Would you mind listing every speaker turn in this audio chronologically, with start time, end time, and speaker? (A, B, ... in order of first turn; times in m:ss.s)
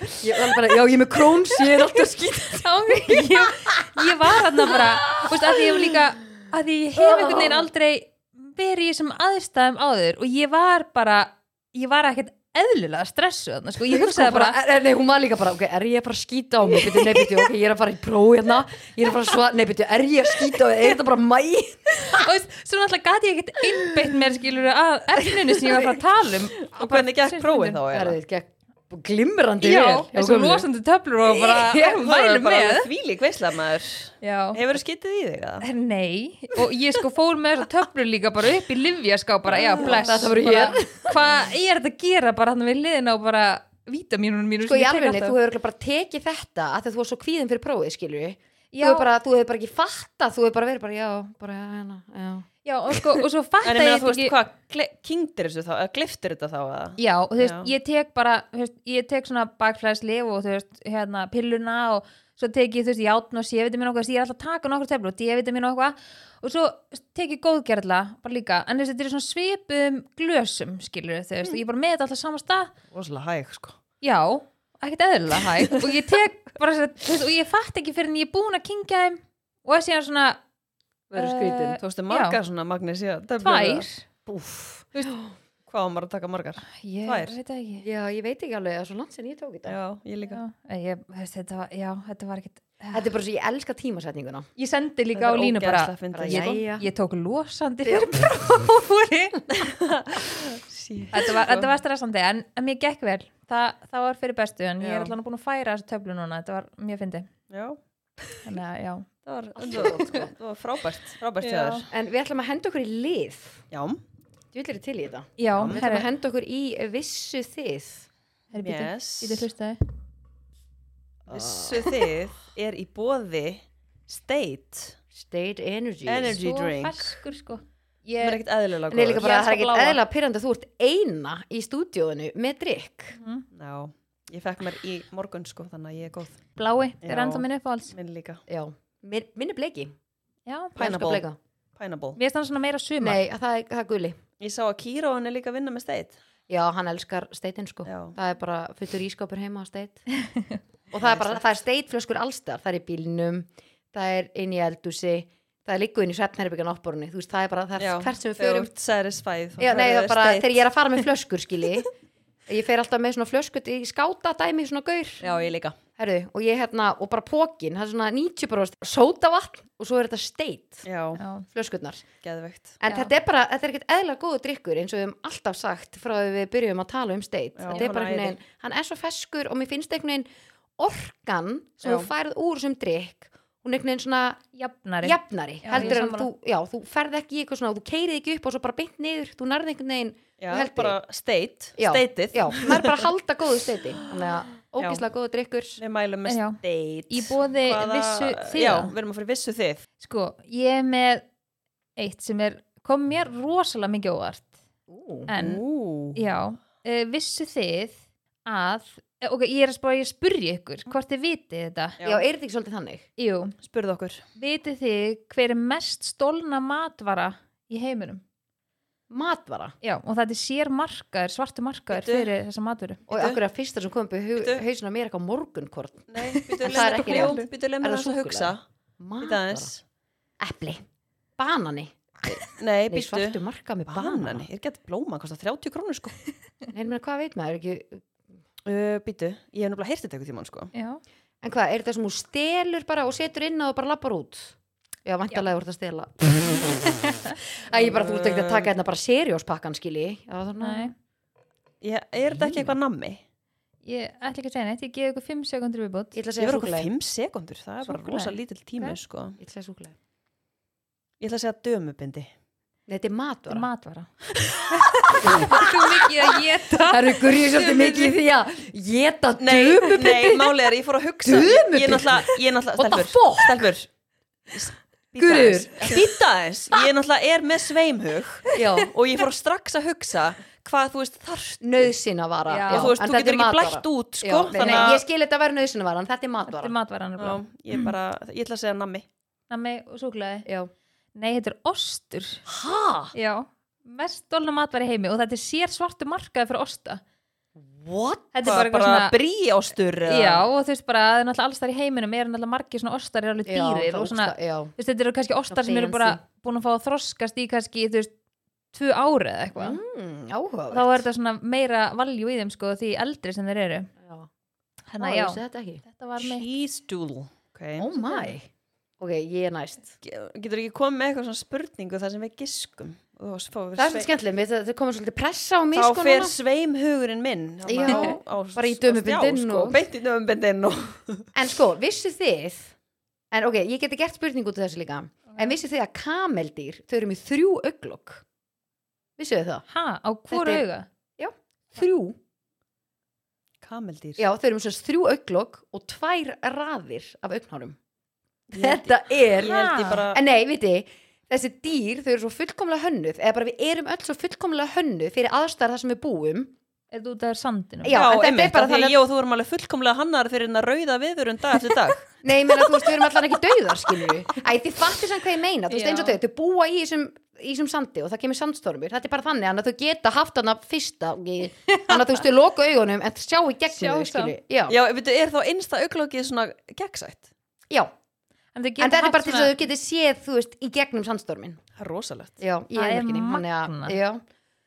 0:00.2-0:03.9 A
0:02.0-0:14.6 B
0:04.4-0:05.6 A
0:07.0-0:07.7 A
0:13.8-0:22.3 A
0:22.1-0:27.8 B
0:26.7-0:28.2 C
0:27.9-0:30.7 A
0:29.6-0:32.9 B
0:31.3-0:31.7 A
0:31.4-0:35.7 C
0:34.2-0:34.6 B
0:35.6-0:45.4 B
0:39.5-0:40.3 C
0:39.6-0:41.3 A
0:44.7-0:52.5 A
0:48.7-0:49.1 B
0:52.6-0:54.4 B
0:53.6-0:57.7 C
0:57.0-1:12.7 B
1:12.9-1:13.8 C
1:14.0-1:20.4 B
1:21.1-1:21.8 A
1:21.2-1:22.4 B
1:21.8-1:23.9 C
1:23.4-1:24.0 B
1:24.3-1:25.3 A
1:25.7-1:27.4 C
1:26.7-1:27.9 B
1:27.8-1:29.8 A
1:29.6-1:30.4 C
1:30.2-1:33.1 B
1:32.9-1:34.5 A
1:34.6-1:39.5 B
1:35.2-1:36.6 C
1:36.1-1:36.9 A
1:39.6-1:41.7 C
1:41.1-1:47.3 B
1:44.8-1:45.2 C
1:47.5-1:48.4 C
1:48.4-1:49.1 B
1:49.3-1:51.9 C
1:49.6-1:50.3 A
1:49.7-1:50.2 B
1:51.4-1:51.9 B
1:51.9-1:53.6 A
1:53.7-1:54.0 C
1:54.5-1:58.1 A
1:55.4-1:56.1 B
1:55.6-1:55.8 C
1:58.5-1:59.8 B
1:58.6-1:59.5 C
2:01.3-2:02.1 A
2:01.3-2:05.0 C
2:05.1-2:06.4 A
2:06.1-2:07.2 C
2:06.3-2:08.4 B
2:08.2-2:09.3 C
2:08.9-2:13.2 A
2:09.2-2:10.0 B
2:13.2-2:13.4 B
2:13.5-2:16.4 C
2:16.6-2:17.9 B
2:17.0-2:18.4 C
2:18.5-2:19.9 A
2:20.5-2:20.8 B
2:20.8-2:21.4 A
2:20.8-2:21.2 C
2:21.8-2:22.2 C
2:22.2-2:23.2 B
2:23.0-2:24.2 A
2:24.4-2:26.2 C
2:26.5-2:30.0 A
2:27.9-2:28.2 C
2:30.2-2:30.6 B
2:30.9-2:38.7 A
2:31.0-2:31.4 C
2:37.8-2:40.7 C
2:39.6-2:41.9 A
2:42.5-2:45.2 A
2:45.2-2:45.8 C
2:45.2-2:45.5 B
2:46.0-2:50.8 A
2:50.8-2:51.2 C
2:51.2-2:51.4 B
2:51.5-2:52.1 A
2:52.2-2:52.8 C
2:52.8-3:00.3 A
2:57.6-2:58.4 C
3:00.8-3:04.4 A
3:01.8-3:02.1 C
3:04.5-3:06.3 B
3:05.0-3:11.0 A
3:05.7-3:06.0 C
3:10.4-3:13.1 C
3:11.8-3:15.8 A
3:14.0-3:15.0 C
3:15.8-3:19.8 C
3:16.3-3:18.9 B
3:20.0-3:21.2 B
3:22.0-3:24.5 B
3:24.9-3:25.3 A
3:25.3-3:25.6 B
3:25.4-3:26.2 C
3:26.2-3:32.0 B
3:32.0-3:32.3 C
3:32.0-3:33.1 A
3:33.2-3:33.6 B
3:33.6-3:34.2 C
3:34.4-3:38.2 B
3:39.1-3:39.8 A
3:39.8-3:43.0 B
3:41.9-3:42.3 C
3:43.1-3:43.4 C
3:43.1-3:46.1 A
3:44.4-3:44.6 C
3:46.1-3:48.6 C
3:46.3-3:47.5 B
3:46.6-3:49.7 A
3:49.2-3:49.8 C
3:50.4-3:50.8 A
3:51.4-3:54.5 A
3:52.4-3:56.2 C
3:56.7-3:58.0 A
3:58.6-4:00.7 C
4:00.7-4:01.0 B
4:01.4-4:10.9 A
4:07.1-4:07.4 B
4:07.7-4:08.7 C
4:10.6-4:10.9 B
4:11.8-4:13.2 C
4:12.3-4:12.8 A
4:13.8-4:16.2 B
4:16.1-4:16.9 A
4:16.4-4:19.4 C
4:17.8-4:19.0 B
4:19.4-4:20.0 A
4:21.2-4:22.3 C
4:22.9-4:23.7 A
4:23.5-4:24.1 B
4:24.7-4:28.1 B
4:25.0-4:25.5 C
4:25.2-4:25.7 A
4:26.7-4:30.6 A
4:29.4-4:33.9 C
4:31.2-4:33.7 A
4:34.5-4:41.9 C
4:35.2-4:36.1 A
4:38.5-4:38.9 A
4:41.6-4:46.7 A
4:42.5-4:42.9 B
4:42.7-4:45.0 C
4:44.6-4:44.9 B
4:46.5-4:47.9 B
4:47.2-4:49.1 C
4:49.5-4:50.5 B
4:50.5-4:50.7 A
4:51.2-4:52.4 B
4:52.5-4:53.1 A
4:53.1-4:57.0 B
4:57.6-4:58.3 A
4:58.3-4:59.1 B
4:58.4-5:00.4 C
5:00.1-5:08.1 B
5:03.5-5:04.7 A
5:05.5-5:06.2 A
5:08.7-5:09.8 B
5:09.6-5:11.0 A
5:10.7-5:13.9 B
5:14.0-5:14.3 A
5:14.9-5:16.5 B
5:15.0-5:15.8 A
5:16.2-5:17.9 C
5:17.8-5:18.5 A
5:18.0-5:18.3 B
5:19.0-5:20.0 A
5:20.0-5:24.1 C
5:23.8-5:26.4 A
5:25.7-5:31.3 C
5:27.6-5:29.8 A
5:27.9-5:28.1 B
5:31.4-5:32.7 A
5:33.3-5:38.2 A
5:39.2-5:39.6 A
5:39.7-5:40.9 B
5:40.3-5:40.6 A
5:41.2-5:42.2 A
5:43.6-5:44.2 C
5:44.2-5:47.8 A
5:48.5-5:50.2 C
5:48.6-5:49.6 A
5:49.4-5:50.1 B
5:50.1-5:56.5 A
5:56.9-5:58.0 B
5:57.8-5:59.0 A
5:57.9-6:02.2 C
6:02.2-6:14.8 A
6:05.7-6:06.2 B
6:11.7-6:12.0 B
6:13.7-6:14.4 B
6:14.7-6:17.3 C
6:18.6-6:19.6 B
6:18.8-6:21.6 A
6:21.8-6:22.4 C
6:22.4-6:24.2 A
6:22.7-6:24.0 B